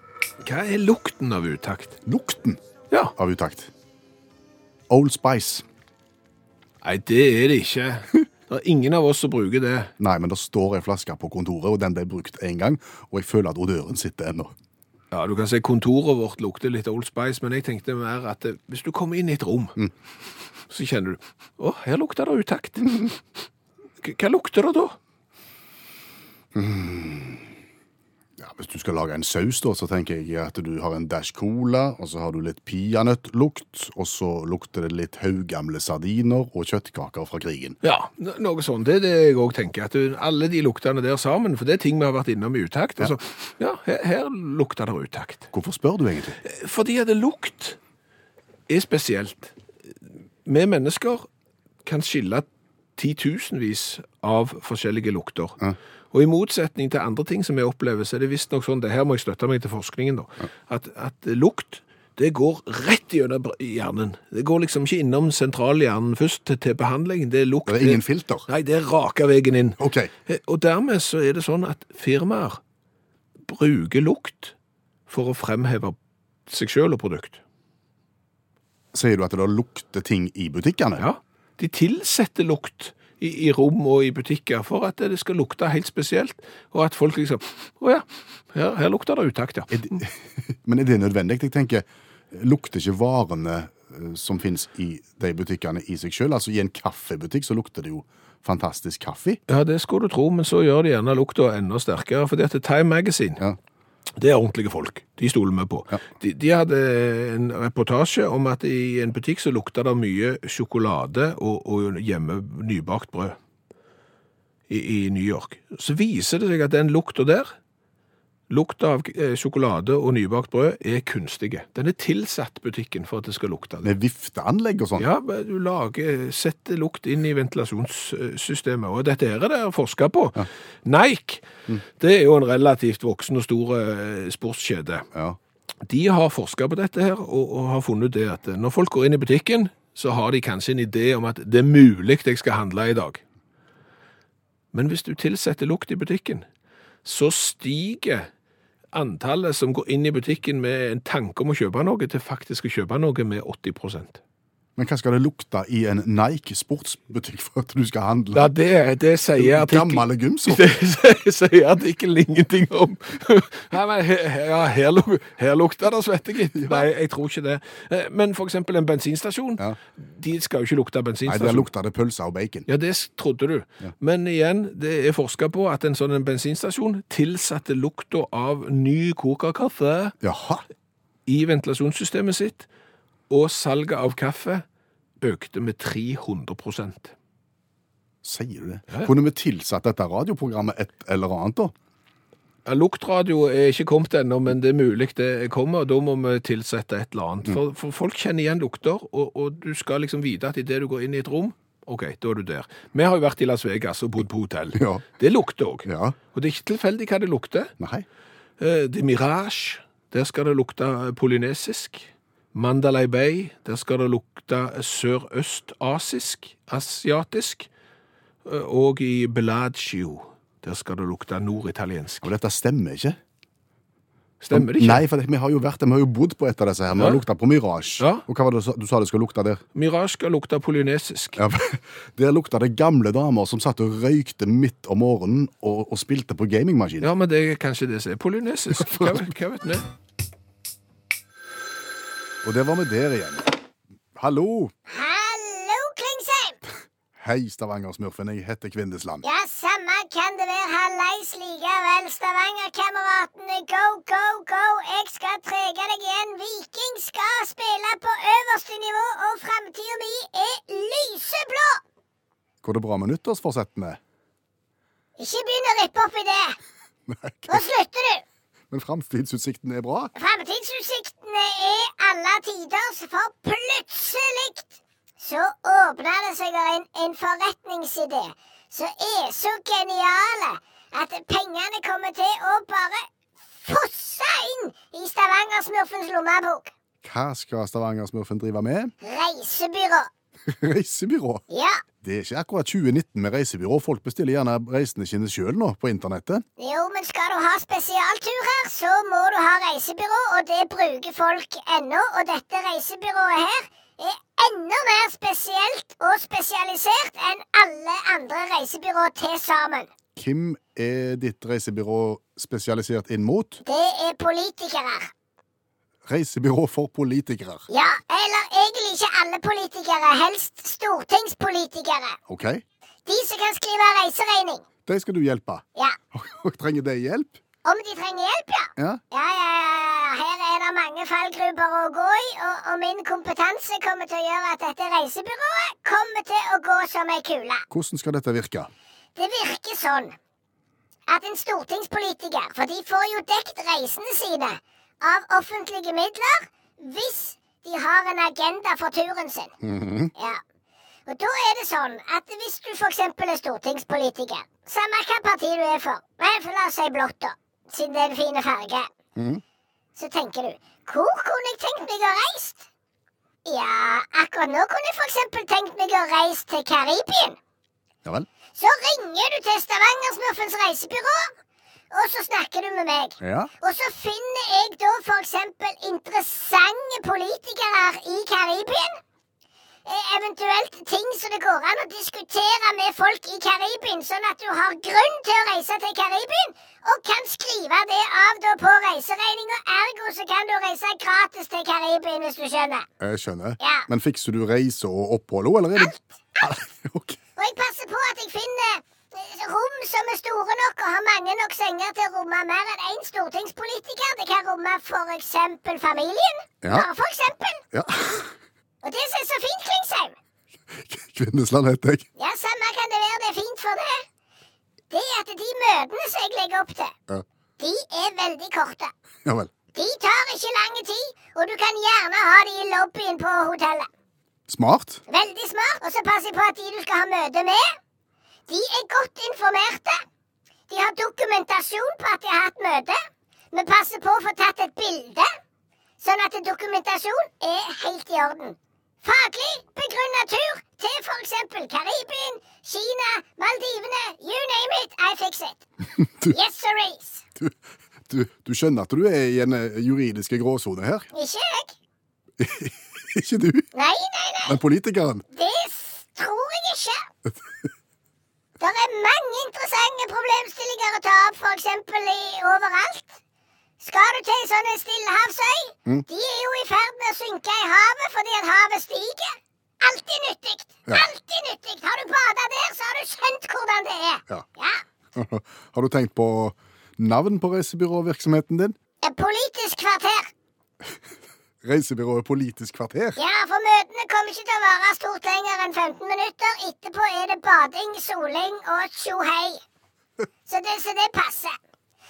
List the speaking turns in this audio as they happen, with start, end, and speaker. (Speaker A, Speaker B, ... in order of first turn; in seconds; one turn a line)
Speaker A: 0.4-2.0
Speaker B: 2.0-2.6
Speaker B: 3.1-3.7
Speaker B: 4.9-5.6
Speaker A: 6.8-9.9
Speaker B: 10.0-14.5
Speaker A: 15.1-19.8
Speaker A: 20.7-23.2
Speaker A: 24.0-25.0
Speaker B: 26.5-27.5
Speaker B: 28.4-37.8
Speaker A: 37.8-45.5
Speaker B: 45.5-46.4
Speaker A: 46.4-47.8
Speaker A: 48.7-49.5
Speaker A: 50.4-51.3
Speaker A: 51.8-55.6
Speaker A: 56.1-72.6
Speaker B: 67.7-68.5
Speaker B: 69.8-70.1
Speaker A: 73.5-74.5
Speaker A: 75.1-76.0
Speaker A: 76.5-77.4
Speaker B: 78.9-81.0
Speaker A: 81.0-90.0
Speaker B: 89.7-99.4
Speaker A: 99.5-103.4
Speaker A: 104.2-113.4
Speaker A: 114.7-117.5
Speaker A: 118.5-123.9
Speaker B: 123.8-125.1
Speaker A: 125.0-135.1
Speaker A: 135.8-143.2
Speaker A: 144.7-146.4
Speaker A: 147.0-148.3
Speaker A: 148.9-154.2
Speaker B: 154.8-158.5
Speaker A: 158.3-171.7
Speaker B: 159.4-160.7
Speaker B: 166.5-166.8
Speaker B: 171.2-172.7
Speaker A: 172.7-180.1
Speaker B: 180.2-180.6
Speaker A: 181.3-182.7
Speaker A: 183.3-184.6
Speaker A: 185.2-187.1
Speaker B: 188.2-191.7
Speaker A: 192.7-207.7
Speaker B: 204.7-205.0
Speaker B: 205.8-206.2
Speaker B: 207.8-208.1
Speaker A: 208.6-217.7
Speaker A: 218.4-222.3
Speaker B: 222.2-223.2
Speaker A: 224.4-225.0
Speaker B: 224.5-229.6
Speaker A: 226.9-227.2
Speaker A: 228.0-228.2
Speaker A: 229.7-231.4
Speaker B: 231.3-237.1
Speaker A: 237.0-239.8
Speaker B: 238.9-239.2
Speaker B: 242.4-243.6
Speaker B: 244.2-244.7
Speaker C: 244.9-246.6
Speaker B: 247.2-249.2
Speaker C: 249.2-261.8
Speaker B: 262.6-264.0
Speaker C: 265.2-266.6
Speaker B: 267.1-267.6
Speaker C: 267.5-268.2
Speaker B: 268.7-270.1
Speaker C: 270.1-283.1
Speaker C: 283.6-286.7
Speaker B: 287.0-288.9
Speaker C: 289.0-290.1
Speaker B: 290.5-291.4
Speaker C: 291.5-291.8
Speaker B: 292.0-296.4
Speaker C: 296.6-309.9
Speaker B: 310.1-313.6
Speaker C: 313.6-315.1
Speaker B: 316.1-317.7
Speaker C: 317.7-322.2
Speaker B: 322.3-322.6
Speaker C: 323.1-324.6
Speaker B: 324.9-327.4
Speaker C: 327.6-337.6
Speaker B: 337.7-338.7
Speaker C: 339.1-340.1
Speaker C: 341.1-349.5
Speaker B: 349.6-350.1
Speaker C: 350.1-350.4
Speaker C: 351.1-358.9
Speaker B: 359.1-359.4
Speaker C: 359.9-362.6
Speaker C: 363.4-367.4
Speaker C: 368.6-371.3
Speaker C: 371.9-379.0
Speaker B: 373.2-373.5
Speaker C: 379.9-392.9
Speaker B: 393.0-397.2
Speaker C: 393.6-393.9
Speaker C: 395.8-396.5
Speaker C: 397.4-407.6
Speaker B: 406.6-406.9
Speaker B: 407.7-408.3
Speaker C: 408.8-410.1
Speaker B: 410.7-412.1
Speaker C: 412.2-414.0
Speaker C: 414.9-416.9
Speaker C: 417.6-418.9
Speaker B: 419.2-419.5
Speaker C: 419.7-423.9
Speaker B: 424.5-425.0
Speaker C: 425.1-427.8
Speaker C: 428.5-430.0
Speaker C: 430.7-433.0
Speaker C: 433.5-435.3
Speaker C: 436.0-445.6
Speaker B: 446.0-446.3
Speaker C: 446.3-447.2
Speaker B: 448.1-451.1
Speaker C: 451.1-451.7
Speaker B: 452.4-453.7
Speaker C: 453.7-454.6
Speaker B: 454.4-455.2
Speaker C: 455.3-457.1
Speaker C: 458.6-463.2
Speaker C: 463.8-474.8
Speaker B: 475.1-478.8
Speaker C: 479.0-480.3
Speaker B: 481.6-483.2
Speaker C: 483.2-489.6
Speaker C: 490.5-491.6